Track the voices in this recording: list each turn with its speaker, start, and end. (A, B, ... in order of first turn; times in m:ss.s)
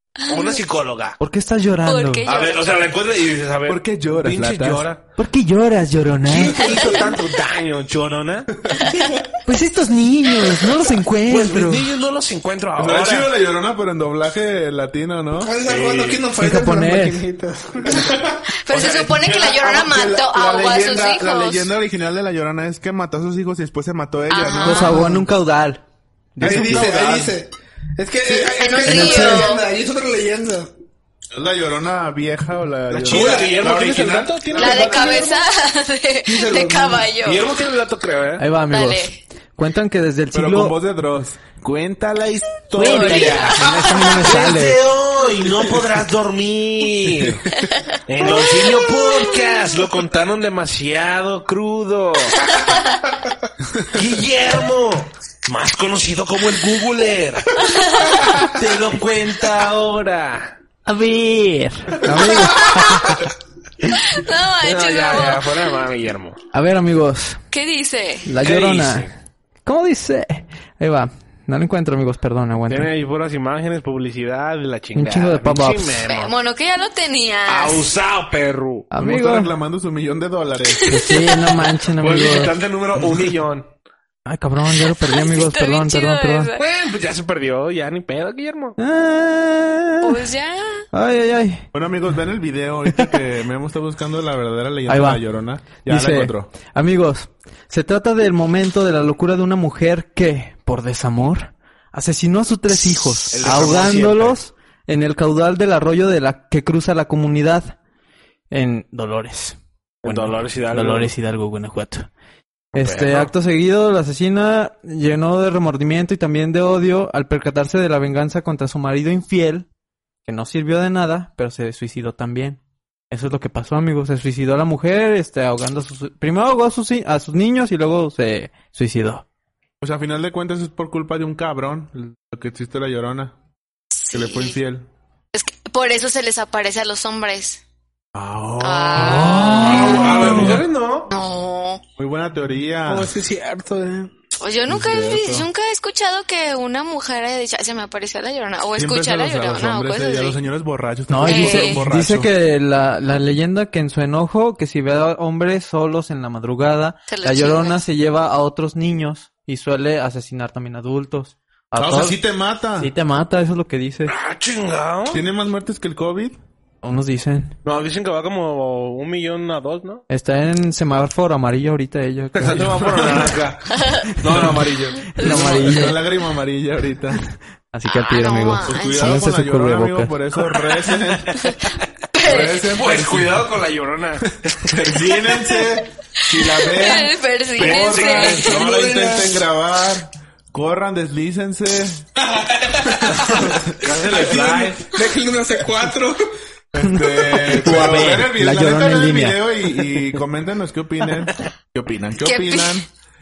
0:00.2-0:00.6 A
0:00.3-0:01.2 B
0:01.2-0:02.3 C
0:01.8-0:02.6 A
0:02.2-0:05.0 B
0:03.7-0:04.9 D
0:05.2-0:06.8 C
0:06.3-0:07.1 E
0:06.3-0:08.5 B
0:06.7-0:07.0 A
0:08.8-0:09.2 A
0:09.4-0:11.9 C
0:11.2-0:13.3 B
0:12.8-0:15.6 D
0:15.4-0:18.4 E
0:15.7-0:16.2 B
0:16.4-0:17.2 C
0:18.6-0:21.7 A
0:18.7-0:19.7 B
0:19.5-0:25.0 D
0:24.3-0:25.1 A
0:24.6-0:25.8 C
0:26.4-0:27.3 C
0:26.4-0:27.2 D
0:26.4-0:30.7 E
0:28.5-0:29.6 A
0:28.8-0:29.5 C
0:31.3-0:34.9 D
0:32.9-0:33.7 E
0:33.0-0:35.2 B
0:34.5-0:37.5 A
0:34.5-0:35.4 E
0:36.2-0:37.1 E
0:37.2-0:38.4 B
0:38.4-0:40.8 C
0:38.7-0:39.1 A
0:40.3-0:43.5 D
0:42.8-0:44.8 C
0:42.8-0:47.5 B
0:47.7-0:49.3 A
0:48.1-0:52.5 B
0:53.8-1:00.5 B
0:57.6-0:58.2 A
1:00.8-1:03.3 C
1:02.5-1:03.2 A
1:03.9-1:05.6 A
1:04.6-1:06.4 B
1:06.5-1:07.4 C
1:07.5-1:08.3 A
1:08.2-1:09.1 C
1:08.4-1:09.1 B
1:09.6-1:12.9 C
1:12.7-1:16.3 B
1:14.9-1:16.0 C
1:16.0-1:17.9 A
1:17.5-1:18.9 B
1:18.9-1:19.5 C
1:19.0-1:21.1 D
1:20.7-1:21.6 A
1:20.9-1:22.5 C
1:22.0-1:23.7 B
1:24.2-1:26.5 C
1:24.9-1:26.6 A
1:26.5-1:28.8 B
1:28.8-1:30.2 C
1:30.0-1:30.9 A
1:30.9-1:31.6 C
1:31.7-1:36.5 D
1:34.9-1:35.2 C
1:35.8-1:47.8 C
1:43.3-1:44.4 B
1:48.5-1:52.1 C
1:50.0-1:51.1 B
1:52.7-1:59.7 C
1:52.7-1:53.3 B
2:00.2-2:02.6 C
2:03.1-2:09.2 C
2:09.8-2:13.3 D
2:13.9-2:14.6 A
2:14.1-2:14.9 D
2:15.3-2:17.6 A
2:18.1-2:20.6 D
2:18.6-2:20.2 A
2:19.0-2:20.6 C
2:19.5-2:21.1 B
2:21.1-2:21.8 A
2:22.0-2:23.1 D
2:22.8-2:24.1 E
2:24.4-2:30.4 A
2:24.7-2:25.5 D
2:28.8-2:32.3 D
2:31.1-2:42.2 C
2:31.2-2:31.8 A
2:37.1-2:37.8 A
2:41.8-2:42.9 D
2:42.8-2:44.1 C
2:44.0-2:45.2 B
2:45.1-2:46.4 D
2:46.8-2:47.5 C
2:47.6-2:50.0 B
2:50.1-2:53.2 C
2:52.4-2:55.4 B
2:52.4-2:53.4 D
2:53.8-2:54.1 A
2:54.3-2:54.6 C
2:54.3-2:57.2 D
2:55.1-2:56.0 C
2:55.2-2:55.5 A
2:57.7-3:00.1 C
2:57.9-2:59.2 A
2:58.6-3:01.4 D
3:01.4-3:02.6 A
3:02.2-3:03.5 D
3:02.5-3:04.9 B
3:04.6-3:12.1 D
3:06.2-3:08.5 A
3:07.5-3:08.6 B
3:08.1-3:09.3 E
3:12.6-3:13.5 E
3:13.1-3:14.9 B
3:14.1-3:14.7 D
3:14.3-3:16.3 E
3:16.7-3:22.9 D
3:16.8-3:19.4 C
3:22.2-3:22.8 A